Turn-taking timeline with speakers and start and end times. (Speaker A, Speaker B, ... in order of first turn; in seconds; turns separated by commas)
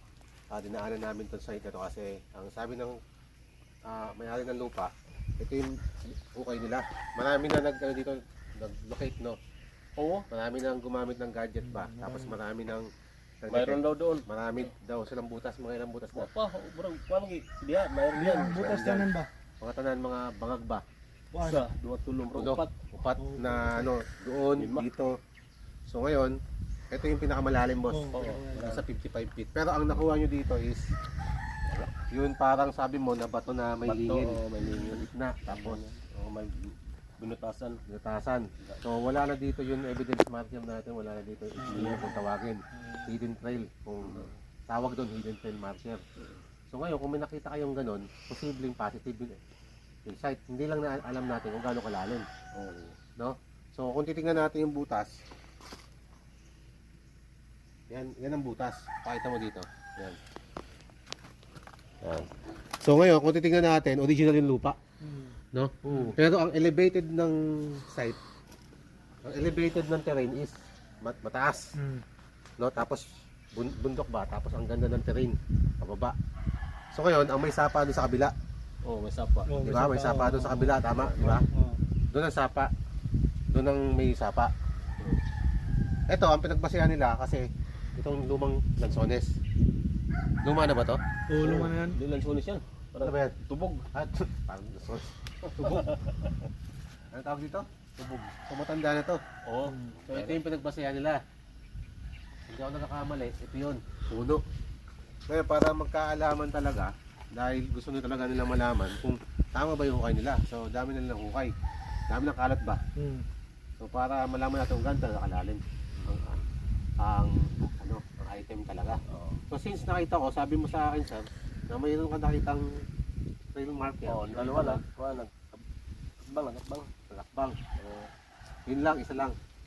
Speaker A: 0.5-3.0, Speaker A: 3.9-9.4, Speaker B: 10.0-10.2, Speaker A: 10.3-12.9, Speaker C: 11.6-12.4, Speaker A: 13.4-16.3, Speaker B: 13.5-14.2, Speaker B: 16.1-18.9, Speaker C: 18.1-19.3, Speaker A: 18.6-19.1, Speaker A: 19.6-20.9, Speaker C: 21.3-21.6, Speaker B: 21.4-22.7, Speaker A: 22.4-25.1, Speaker C: 23.2-23.9, Speaker B: 24.6-24.9, Speaker A: 25.9-26.4, Speaker A: 26.9-30.9, Speaker C: 27.9-28.7, Speaker B: 28.1-28.9, Speaker B: 31.7-31.9, Speaker A: 32.1-35.8, Speaker B: 33.9-36.5, Speaker B: 37.2-37.8, Speaker A: 37.9-46.0, Speaker C: 41.6-42.1, Speaker B: 41.7-42.1, Speaker C: 42.8-43.1, Speaker B: 44.0-44.4, Speaker A: 46.7-49.4, Speaker A: 50.1-52.3, Speaker B: 52.5-53.0, Speaker A: 53.2-55.1, Speaker A: 57.9-60.2, Speaker A: 62.0-62.3, Speaker A: 62.8-64.8, Speaker C: 65.0-66.2, Speaker A: 65.5-68.2, Speaker A: 69.2-71.7, Speaker C: 71.8-72.0, Speaker A: 72.6-76.2, Speaker A: 76.9-78.3, Speaker B: 78.8-79.5, Speaker C: 79.5-81.8, Speaker A: 79.6-81.5, Speaker A: 82.1-82.7, Speaker A: 83.5-84.5, Speaker A: 86.1-89.3, Speaker A: 90.4-91.7, Speaker C: 91.3-92.0, Speaker B: 91.5-93.8, Speaker A: 93.0-93.4, Speaker A: 93.9-95.9, Speaker B: 95.5-96.4, Speaker A: 97.1-97.7, Speaker B: 98.0-98.3, Speaker A: 98.5-99.2, Speaker B: 99.5-100.4, Speaker A: 100.1-101.2, Speaker A: 102.5-104.4, Speaker A: 105.3-111.5, Speaker A: 112.1-112.8, Speaker C: 113.0-113.3, Speaker A: 113.8-116.4, Speaker B: 116.0-116.4, Speaker A: 117.0-122.8, Speaker B: 119.1-119.4, Speaker A: 123.5-124.8, Speaker B: 124.1-125.6, Speaker B: 126.2-126.9, Speaker A: 127.1-127.6, Speaker B: 127.8-128.1, Speaker A: 128.7-129.4